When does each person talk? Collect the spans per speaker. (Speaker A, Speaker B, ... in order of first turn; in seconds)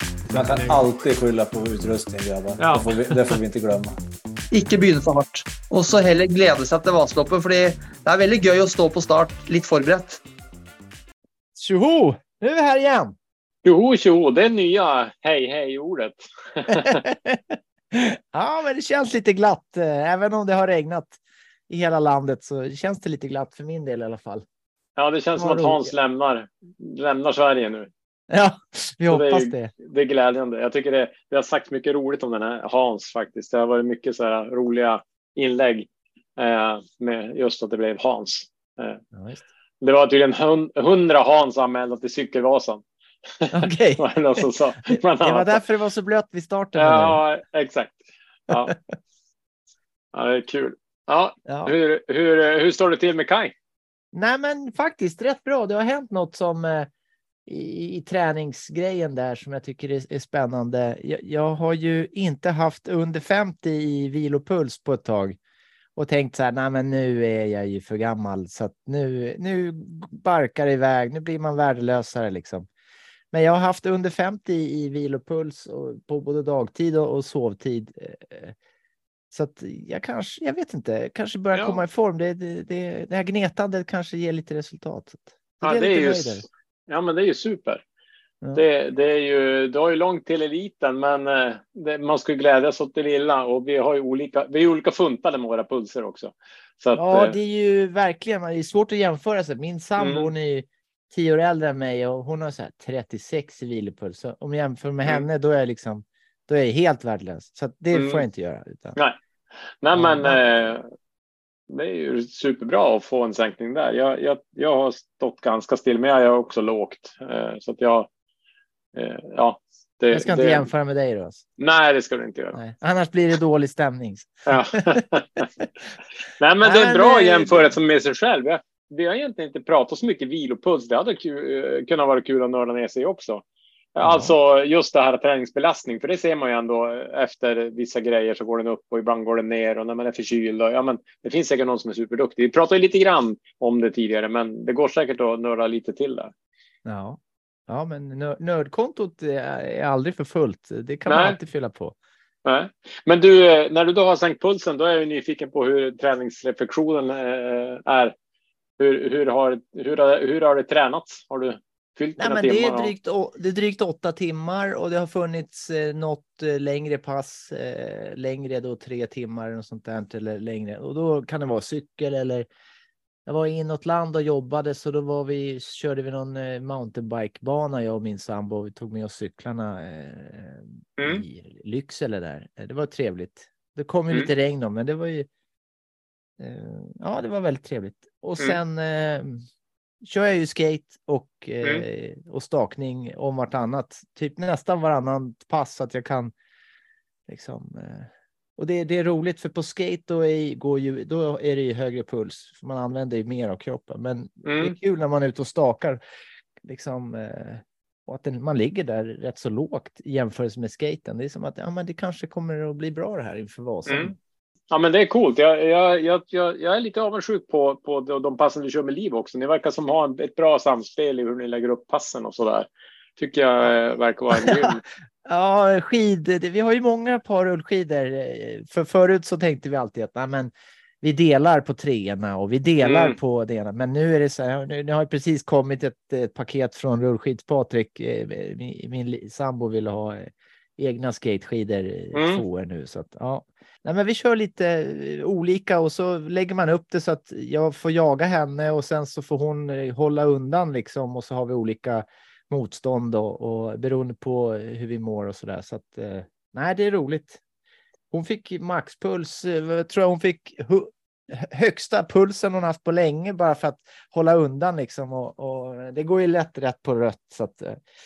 Speaker A: 0.3-4.0
Speaker B: 0.3-0.8, 2.6-3.4, 13.6-17.0, 25.0-27.9, 29.1-39.0, 39.8-42.8, 43.4-45.6, 46.8-48.8, 50.1-53.5, 81.5-81.8, 85.6-87.8, 88.5-97.3, 100.0-100.3, 107.9-108.2, 109.8-110.8, 111.7-118.1, 118.9-120.6, 121.6-122.6, 124.5-125.5, 126.4-133.4, 133.9-146.3, 151.1-151.4, 152.4-158.1, 158.8-162.9, 204.4-204.8, 213.9-214.1, 214.7-224.8, 232.8-233.2, 242.1-242.4
Speaker C: 4.5-10.2
Speaker D: 11.6-13.2, 16.7-21.2, 21.7-24.4, 25.4-25.9, 28.3-29.7, 39.1-39.4, 43.5-44.4, 44.9-47.2, 51.5-51.7, 54.1-56.9, 57.5-65.4, 66.0-72.7, 73.3-78.5, 79.3-86.4, 97.0-109.0, 109.9-110.7, 120.1-121.4, 122.5-125.0, 126.6-127.7, 134.0-134.3, 146.8-151.9, 162.2-172.4, 173.2-185.3, 186.4-189.4, 190.0-196.3, 197.3-206.0, 206.6-214.1, 224.3-257.4, 258.1-267.8